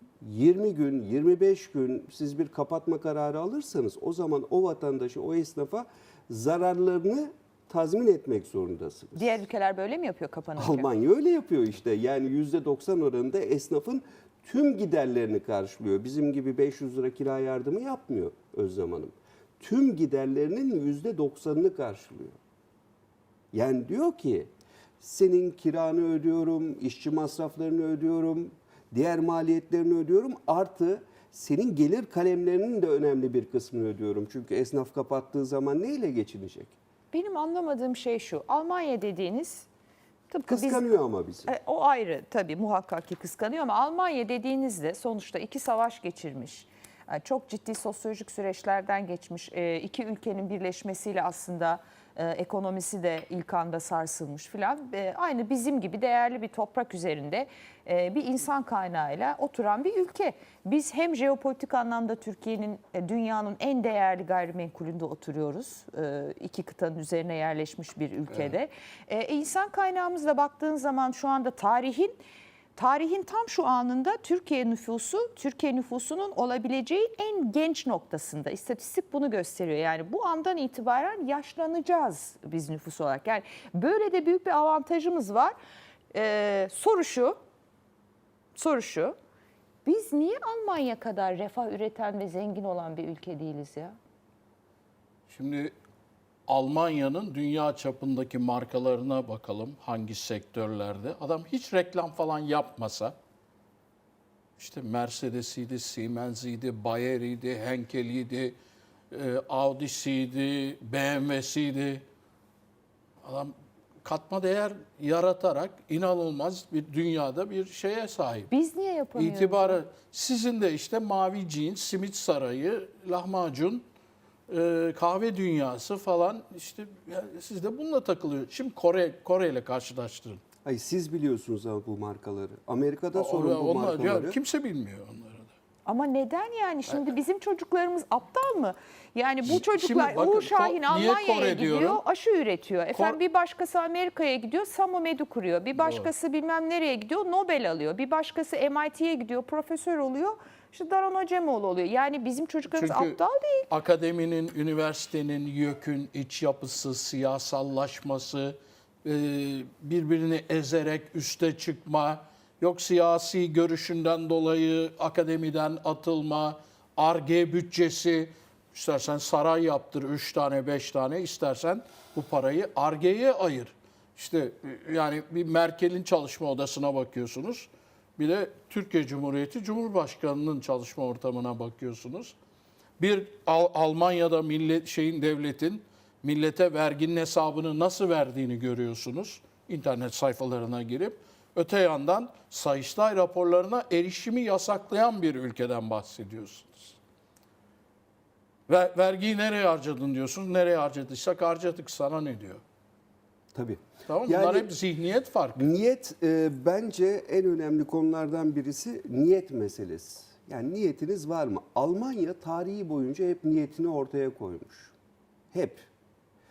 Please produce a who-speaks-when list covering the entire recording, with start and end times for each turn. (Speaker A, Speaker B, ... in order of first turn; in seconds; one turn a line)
Speaker A: 0.2-9.3
Speaker B: 9.2-10.9
Speaker A: 10.6-22.4
Speaker A: 23.5-36.8
Speaker B: 37.1-39.7
Speaker B: 40.3-40.9
Speaker A: 40.5-41.5
Speaker B: 41.5-72.1
Speaker B: 72.8-85.5
Speaker B: 86.1-87.4
Speaker B: 88.5-89.1
Speaker B: 89.8-94.0
Speaker C: 95.3-95.7
Speaker C: 96.5-103.1
Speaker C: 104.6-108.5
Speaker C: 109.1-112.0
Speaker C: 113.2-113.5
Speaker C: 114.0-118.5
Speaker B: 118.5-119.8
Speaker C: 119.2-123.8
Speaker C: 124.5-130.4
Speaker A: 130.6-134.4
Speaker C: 133.1-135.5
Speaker B: 135.8-153.7
Speaker C: 139.4-142.0
Speaker C: 145.8-146.1
Speaker C: 152.7-153.2
Speaker C: 153.7-182.3
Speaker C: 183.0-197.0
Speaker C: 198.7-202.6
Speaker A: 203.5-204.7
Speaker C: 204.1-205.7
Speaker A: 205.5-214.9
Speaker A: 215.5-215.8